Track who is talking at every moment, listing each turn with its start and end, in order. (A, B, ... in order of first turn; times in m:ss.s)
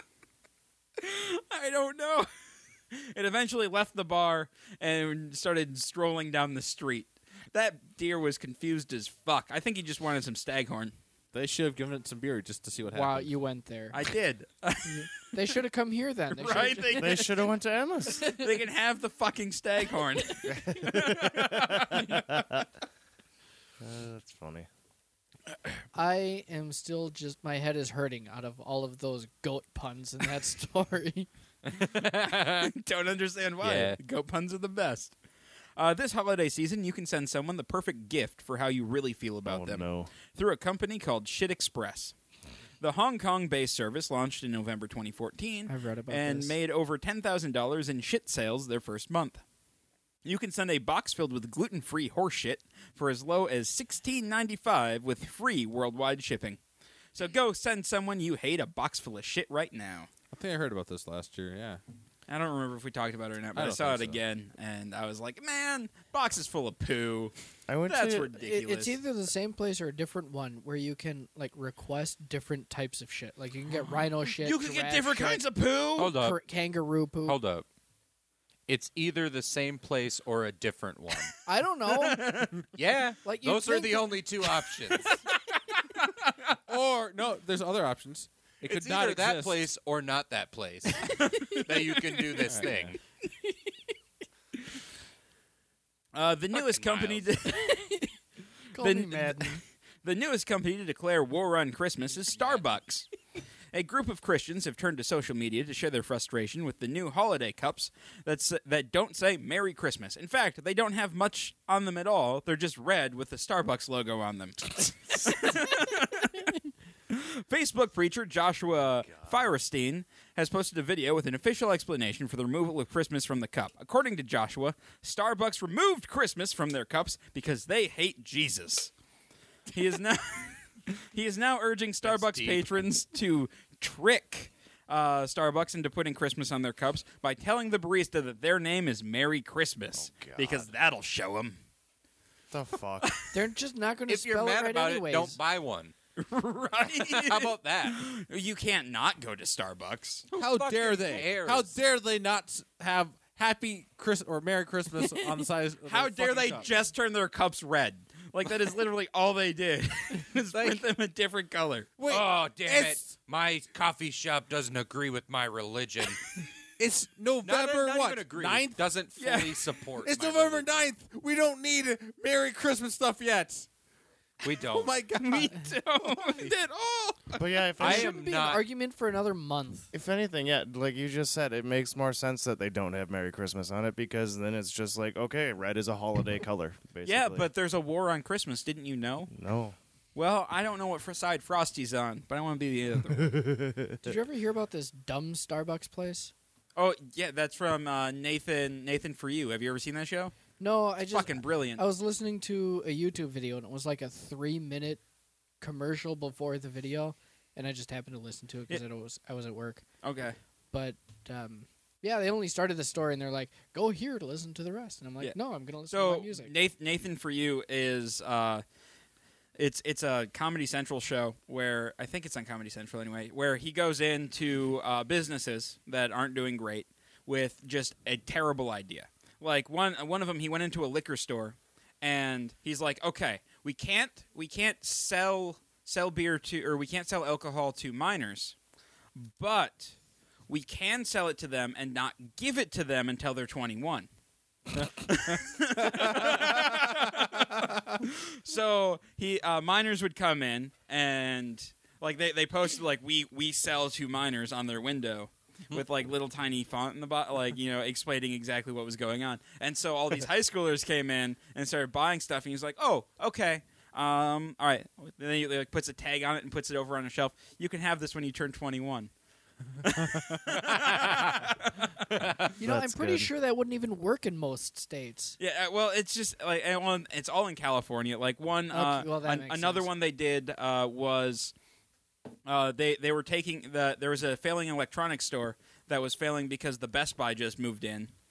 0:01.0-0:02.3 A
0:02.9-0:11.0 A
0:11.3-0:13.4 B
0:12.9-0:14.0 C
0:13.9-0:15.4 A
0:14.8-0:17.4 C
0:16.3-0:17.4 A
0:17.0-0:18.3 D
0:18.2-0:18.5 C
0:18.2-0:22.4 A
0:20.5-0:22.6 D
0:23.8-0:24.7 D
0:25.9-0:31.3 C
0:31.7-0:32.7 E
0:32.2-0:35.2 A
0:33.6-0:34.0 E
0:35.8-0:42.1 A
0:39.5-0:40.1 D
0:42.8-0:49.4 A
0:45.7-0:46.6 C
0:50.2-0:56.6 A
0:57.1-1:00.1 A
1:00.3-1:01.8 B
1:02.3-1:07.3 A
1:03.5-1:04.2 B
1:07.7-1:08.3 D
1:07.9-1:09.0 A
1:08.3-1:15.4 C
1:14.2-1:16.2 A
1:16.0-1:16.4 E
1:16.1-1:17.4 C
1:17.3-1:17.7 E
1:18.7-1:21.4 E
1:21.5-1:22.5 C
1:21.9-1:22.6 A
1:22.7-1:25.2 E
1:23.2-1:24.2 C
1:26.0-1:26.6 A
1:26.7-1:29.7 B
1:28.6-1:33.0 E
1:31.2-1:31.7 A
1:31.3-1:31.6 C
1:32.4-1:33.0 B
1:36.1-1:37.8 A
1:36.6-1:37.3 E
1:37.5-1:38.1 C
1:38.7-1:39.6 C
1:38.8-1:43.1 A
1:43.7-1:56.6 A
1:57.1-2:08.9 A
1:59.1-1:59.4 D
2:09.7-2:21.6 A
2:12.0-2:12.7 E
2:20.0-2:20.7 D
2:22.5-2:23.2 D
2:23.3-2:25.4 C
2:24.1-2:25.9 E
2:26.2-2:30.3 A
2:26.9-2:28.0 E
2:30.3-2:31.8 E
2:30.4-2:36.8 B
2:35.9-2:41.9 A
2:40.5-2:40.8 E
2:42.0-2:43.1 B
2:42.1-2:46.3 E
2:46.8-2:48.8 B
2:47.4-2:50.9 E
2:49.2-2:49.7 A
2:50.0-2:53.7 B
2:54.4-2:55.0 E
2:54.5-2:55.7 B
2:55.2-2:57.4 A
2:57.4-2:58.2 D
2:57.8-2:58.6 E
2:57.8-2:59.9 C
2:59.9-3:07.5 D
3:07.0-3:09.3 A
3:09.3-3:09.8 D
3:10.2-3:13.4 A
3:13.2-3:14.2 D
3:14.0-3:16.3 C
3:16.8-3:20.3 A
3:20.6-3:25.0 C
3:21.1-3:21.8 A
3:25.6-3:29.8 C
3:30.0-3:30.4 A
3:30.7-3:36.5 C
3:35.9-3:38.6 A
3:39.6-3:58.6 A
3:59.2-4:00.0 A
4:00.5-4:04.1 A
4:04.9-4:29.1 A
4:29.8-4:32.2 A
4:30.7-4:31.3 E
4:32.6-4:35.4 C
4:32.6-4:33.3 D
4:35.4-4:41.5 A
4:38.7-4:39.9 C
4:42.5-4:48.1 A